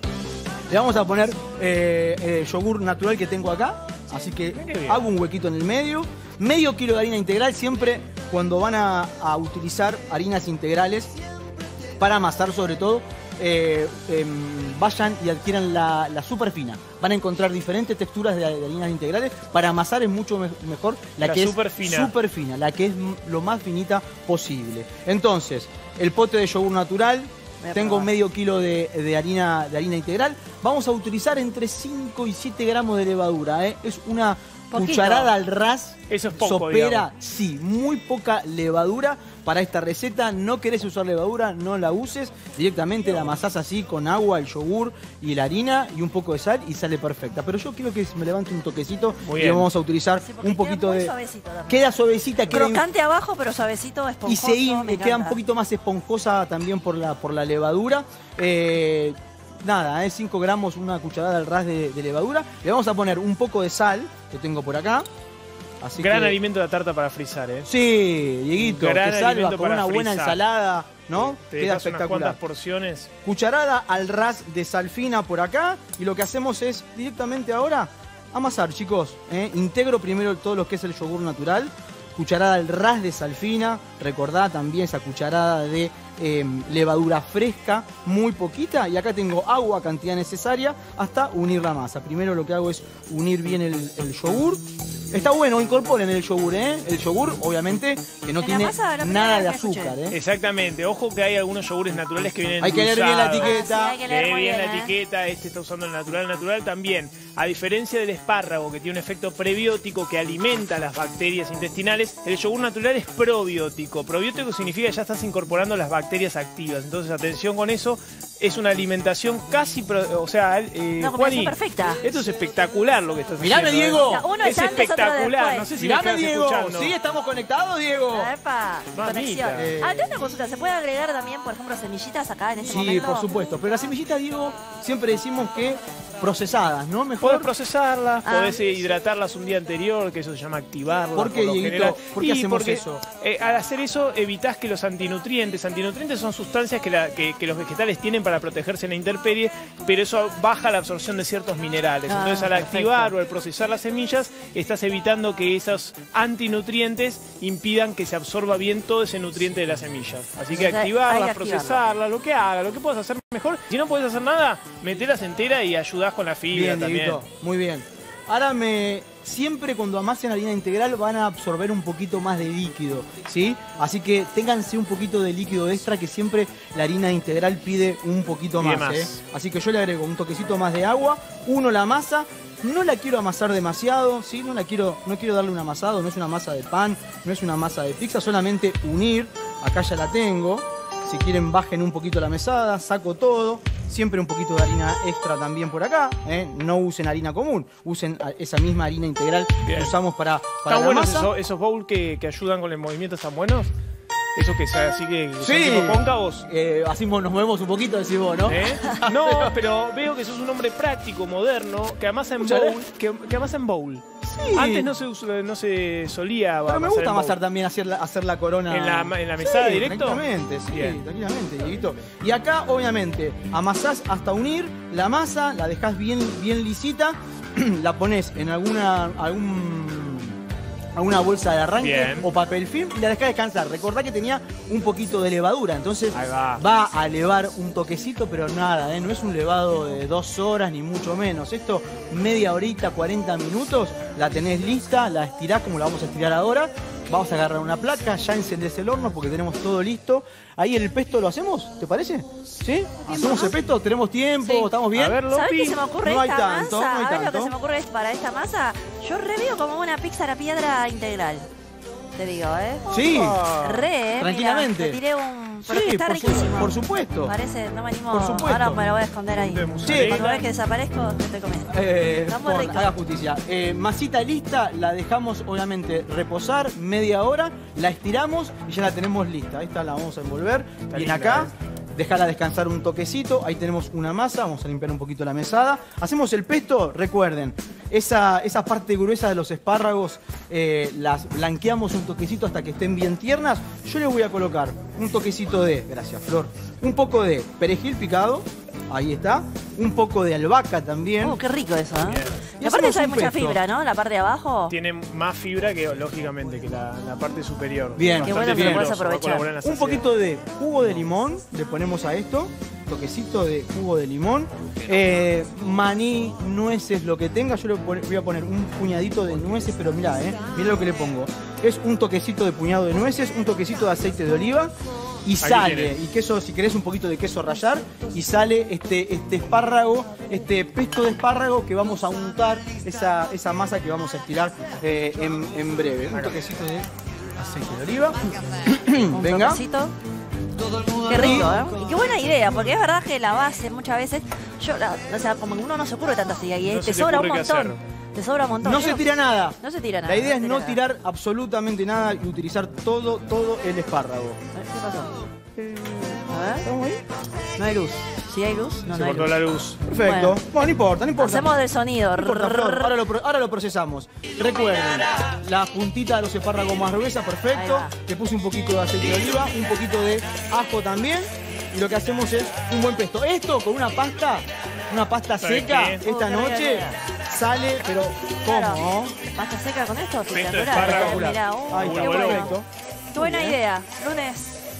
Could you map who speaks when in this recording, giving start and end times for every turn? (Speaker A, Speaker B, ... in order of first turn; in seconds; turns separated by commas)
Speaker A: 0.7-11.1, Speaker B: 4.5-5.0, Speaker A: 12.0-51.1, Speaker B: 21.2-22.1, Speaker C: 27.6-28.1, Speaker C: 34.7-35.3, Speaker B: 36.1-37.1, Speaker B: 49.2-49.7, Speaker C: 50.2-51.9, Speaker A: 51.7-52.8, Speaker C: 52.5-55.4, Speaker A: 54.2-65.1, Speaker A: 65.8-66.3, Speaker B: 66.0-67.7, Speaker A: 67.7-72.4, Speaker B: 68.6-70.4, Speaker B: 71.3-73.1, Speaker A: 73.2-100.2, Speaker C: 98.4-100.0, Speaker B: 100.1-127.0, Speaker A: 102.6-104.0, Speaker C: 103.4-104.9, Speaker C: 121.0-122.0, Speaker A: 123.4-124.2, Speaker C: 124.0-125.7, Speaker A: 125.8-128.3, Speaker C: 128.1-133.3, Speaker B: 128.9-129.7, Speaker A: 129.5-130.1, Speaker A: 132.6-137.5, Speaker B: 137.2-167.2, Speaker C: 138.2-138.6, Speaker A: 141.1-143.0, Speaker C: 152.1-153.1, Speaker C: 160.5-161.8, Speaker A: 166.5-201.3, Speaker B: 178.6-179.2, Speaker B: 199.7-199.9, Speaker B: 200.7-203.7, Speaker B: 204.3-206.4, Speaker A: 205.4-209.5, Speaker B: 208.4-217.4, Speaker A: 212.4-212.8, Speaker A: 214.2-214.9, Speaker A: 216.7-230.4, Speaker B: 218.7-221.0, Speaker A: 230.9-255.2, Speaker B: 231.8-232.3, Speaker B: 236.1-236.6, Speaker C: 253.1-253.5, Speaker B: 254.9-255.8, Speaker C: 255.3-261.5, Speaker A: 256.0-257.5, Speaker C: 262.1-262.9, Speaker A: 262.9-263.4, Speaker B: 262.9-263.9, Speaker C: 263.6-272.9, Speaker A: 264.2-265.0, Speaker A: 265.6-267.3, Speaker A: 268.1-268.8, Speaker B: 269.3-270.4, Speaker A: 269.8-270.2, Speaker A: 271.7-301.4, Speaker B: 280.9-281.5, Speaker C: 301.2-304.7, Speaker B: 302.0-302.3, Speaker A: 302.6-303.6, Speaker B: 304.7-310.1, Speaker A: 307.9-308.9, Speaker C: 308.2-309.5, Speaker A: 309.6-324.7, Speaker B: 314.9-315.2, Speaker A: 325.2-339.6, Speaker B: 325.4-326.0, Speaker B: 336.1-336.4, Speaker C: 339.1-339.9, Speaker A: 341.0-341.5, Speaker C: 341.0-350.8, Speaker B: 346.6-347.8, Speaker A: 348.6-354.4, Speaker C: 354.5-355.1, Speaker A: 355.6-357.0, Speaker C: 356.3-356.6, Speaker C: 357.6-359.3, Speaker B: 358.9-359.8, Speaker A: 359.8-361.5, Speaker C: 360.0-360.4, Speaker C: 361.2-363.0, Speaker A: 362.2-379.1, Speaker C: 367.5-367.9, Speaker B: 375.4-376.0, Speaker C: 376.0-377.0, Speaker C: 378.4-382.6, Speaker B: 380.3-382.6, Speaker A: 380.7-383.6, Speaker C: 383.1-384.6